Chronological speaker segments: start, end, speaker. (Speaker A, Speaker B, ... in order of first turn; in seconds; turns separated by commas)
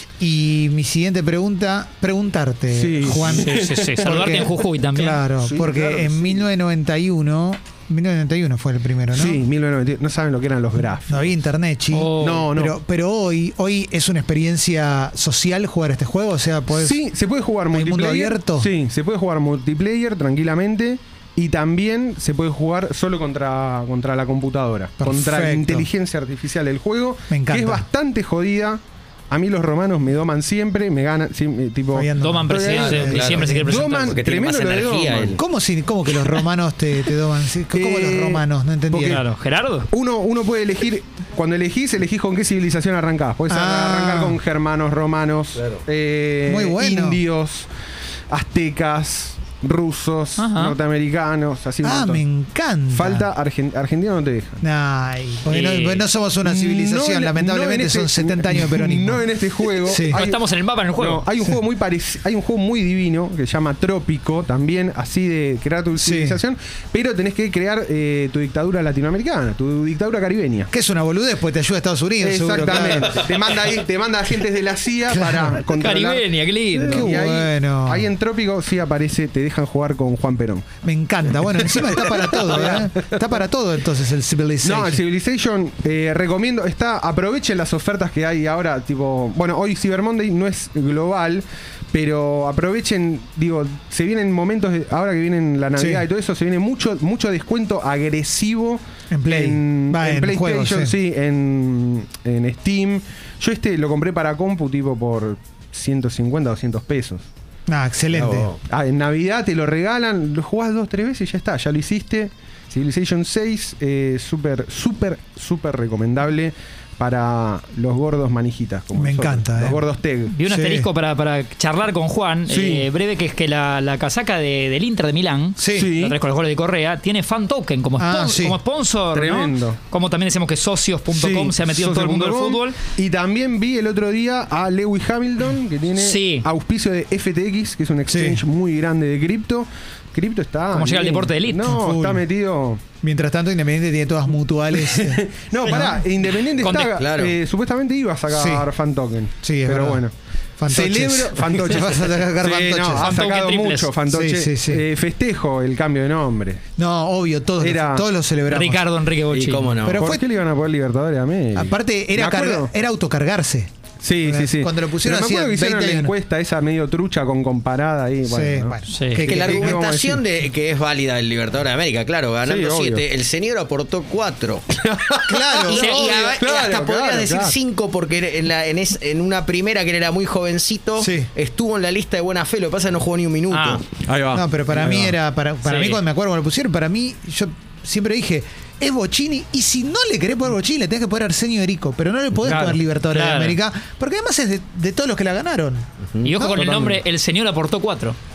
Speaker A: 0.2-9.4, Speaker B: 2.7-4.5, Speaker C: 3.2-5.2, Speaker B: 5.4-6.5, Speaker B: 9.1-11.3, Speaker A: 11.1-17.0, Speaker C: 11.9-12.5, Speaker B: 12.2-12.8, Speaker B: 16.7-35.4, Speaker A: 17.7-18.7, Speaker A: 25.0-25.9, Speaker A: 27.3-27.8, Speaker A: 31.9-33.9, Speaker C: 32.2-34.2, Speaker D: 32.8-35.4, Speaker A: 35.4-39.2, Speaker B: 37.7-39.2, Speaker C: 39.0-39.9, Speaker B: 39.9-47.7, Speaker A: 43.5-44.4, Speaker A: 46.5-47.2, Speaker B: 48.3-52.2, Speaker C: 50.4-50.8, Speaker A: 51.8-53.3, Speaker B: 52.9-54.6, Speaker A: 54.6-59.3, Speaker C: 55.5-56.0, Speaker B: 56.4-60.4, Speaker A: 59.8-60.2, Speaker C: 60.1-61.2, Speaker B: 61.0-70.7, Speaker A: 66.0-66.4, Speaker A: 70.7-73.2, Speaker B: 72.2-76.2, Speaker A: 75.1-75.6, Speaker C: 75.7-77.0, Speaker A: 76.8-78.1, Speaker B: 76.8-80.7, Speaker A: 80.8-85.0, Speaker B: 81.7-83.1, Speaker B: 84.6-107.2, Speaker A: 95.8-96.0, Speaker A: 99.1-100.9, Speaker A: 107.7-108.5, Speaker D: 108.1-108.5, Speaker B: 108.7-120.3, Speaker A: 118.9-119.8, Speaker C: 120.3-132.8, Speaker A: 120.4-120.9, Speaker B: 122.5-122.9, Speaker A: 125.6-125.9, Speaker B: 125.7-126.2, Speaker A: 128.0-128.6, Speaker B: 129.1-129.8, Speaker B: 131.1-142.8, Speaker C: 135.9-136.4, Speaker A: 138.1-138.4, Speaker C: 140.7-141.7, Speaker A: 141.6-142.2, Speaker A: 143.0-146.0, Speaker B: 144.7-150.1, Speaker C: 145.7-146.0, Speaker C: 146.6-146.9, Speaker D: 146.9-147.3, Speaker A: 148.3-148.7, Speaker A: 149.4-150.0, Speaker A: 150.6-153.1, Speaker B: 150.7-156.6, Speaker C: 153.0-153.9, Speaker A: 154.1-154.8, Speaker A: 156.8-158.8, Speaker B: 157.6-158.1, Speaker C: 158.5-159.8, Speaker D: 159.3-160.1, Speaker A: 159.8-160.2, Speaker B: 159.9-162.7, Speaker A: 161.5-163.7, Speaker B: 164.0-168.8, Speaker A: 164.2-166.1, Speaker A: 168.2-169.8, Speaker C: 168.9-169.3, Speaker D: 169.2-174.7, Speaker B: 169.3-170.2, Speaker B: 172.4-173.1, Speaker B: 174.7-177.6, Speaker A: 175.3-175.9, Speaker D: 175.7-183.8, Speaker C: 175.7-176.3, Speaker A: 181.0-181.3, Speaker C: 183.5-183.8, Speaker B: 184.0-185.2, Speaker A: 184.3-196.9, Speaker C: 185.6-186.0, Speaker B: 192.4-192.8, Speaker C: 193.1-193.6, Speaker D: 196.1-196.8, Speaker C: 196.2-198.2